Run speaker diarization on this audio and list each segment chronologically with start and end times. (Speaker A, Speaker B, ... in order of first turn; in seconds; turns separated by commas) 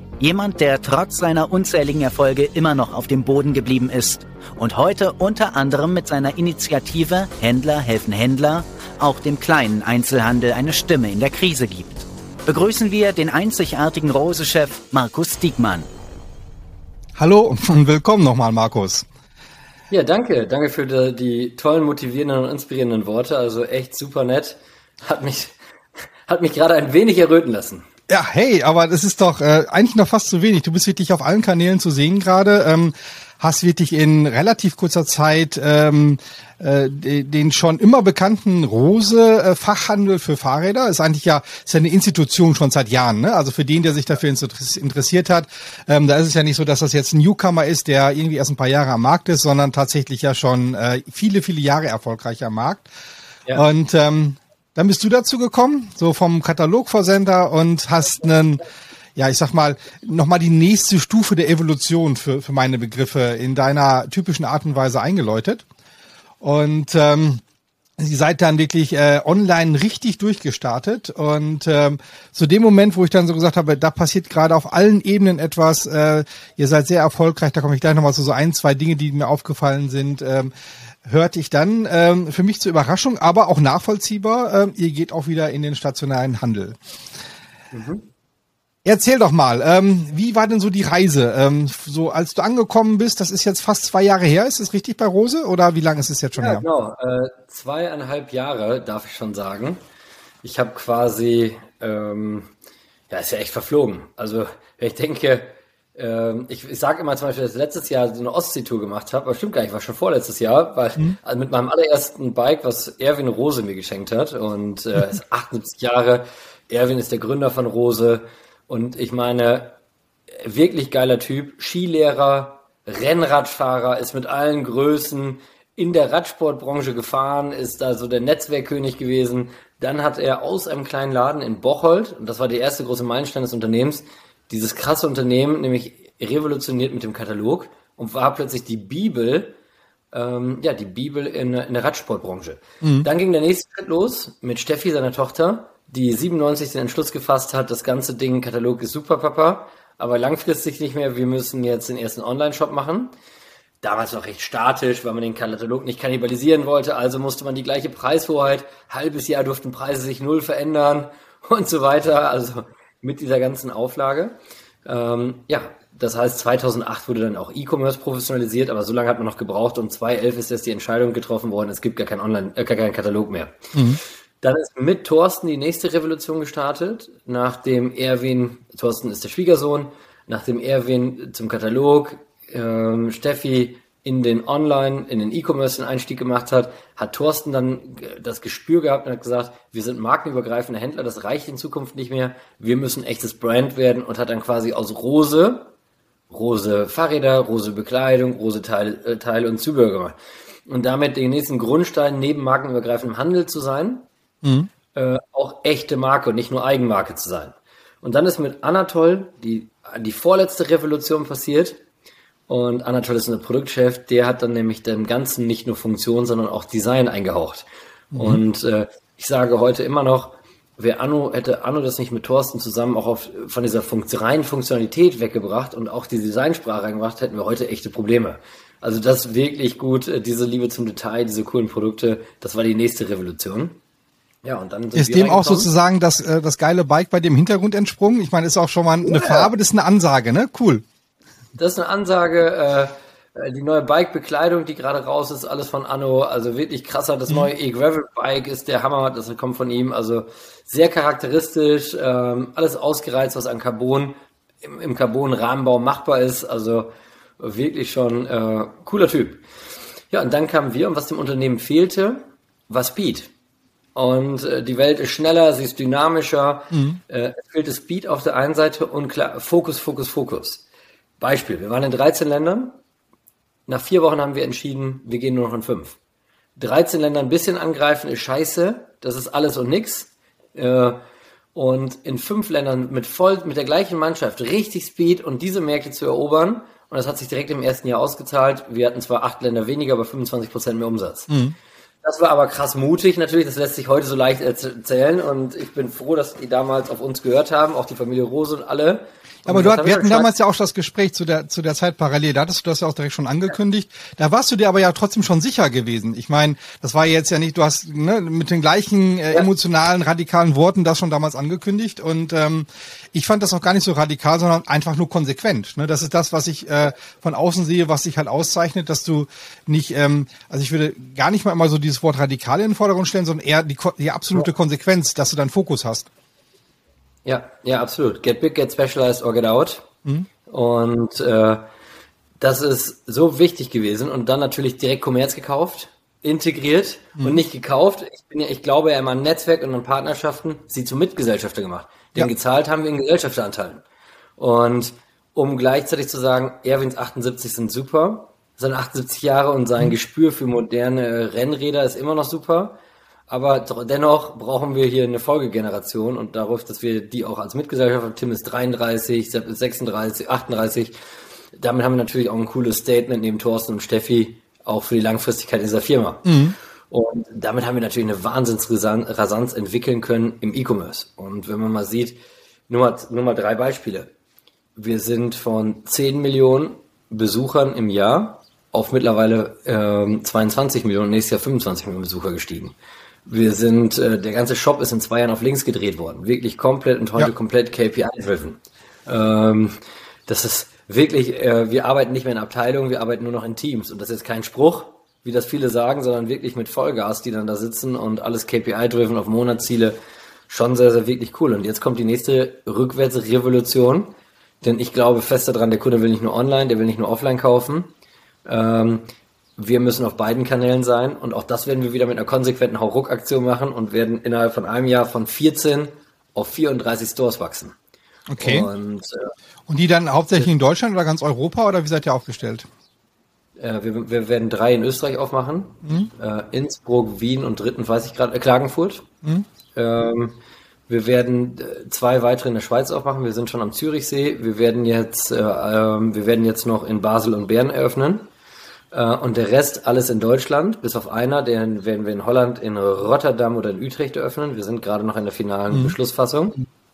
Speaker A: 0.2-15.9, Speaker B: 17.1-19.1, Speaker C: 19.9-25.6, Speaker C: 26.2-27.9, Speaker B: 28.1-52.9, Speaker B: 53.5-58.6, Speaker B: 59.1-65.6, Speaker B: 66.4-67.4, Speaker B: 68.0-80.5, Speaker B: 81.0-86.8, Speaker C: 87.7-88.1, Speaker B: 88.8-96.7, Speaker C: 96.4-99.8, Speaker C: 100.4-102.5, Speaker C: 103.1-119.8, Speaker C: 120.4-139.5, Speaker C: 140.1-153.1, Speaker B: 142.8-143.1, Speaker C: 153.8-173.7, Speaker B: 173.7-174.0, Speaker C: 174.4-195.7, Speaker C: 196.3-204.1, Speaker B: 204.4-204.7, Speaker C: 204.9-211.8, Speaker C: 212.5-233.8, Speaker B: 218.1-218.4, Speaker C: 234.4-235.7, Speaker B: 234.9-240.8, Speaker C: 239.0-239.5, Speaker C: 241.6-259.4, Speaker C: 260.1-263.3, Speaker C: 263.9-270.6, Speaker B: 266.7-267.0, Speaker C: 271.2-272.8, Speaker C: 273.7-276.0, Speaker C: 276.6-281.0, Speaker C: 281.5-291.3, Speaker B: 291.3-291.6, Speaker C: 292.0-300.3, Speaker B: 299.4-326.1, Speaker C: 327.2-329.9, Speaker C: 330.5-331.6, Speaker C: 332.4-343.8, Speaker C: 344.4-352.8, Speaker C: 353.3-360.9, Speaker C: 361.6-366.4, Speaker B: 366.2-366.6, Speaker C: 366.9-374.1, Speaker C: 374.8-382.7, Speaker C: 383.2-389.8, Speaker C: 390.3-400.0, Speaker C: 400.5-407.9, Speaker C: 408.4-409.0, Speaker C: 409.6-417.7, Speaker B: 418.3-418.7, Speaker C: 418.4-419.3, Speaker B: 419.7-422.7, Speaker C: 423.6-429.0, Speaker B: 425.8-426.1, Speaker C: 429.7-438.3, Speaker C: 438.9-446.6, Speaker B: 445.7-446.0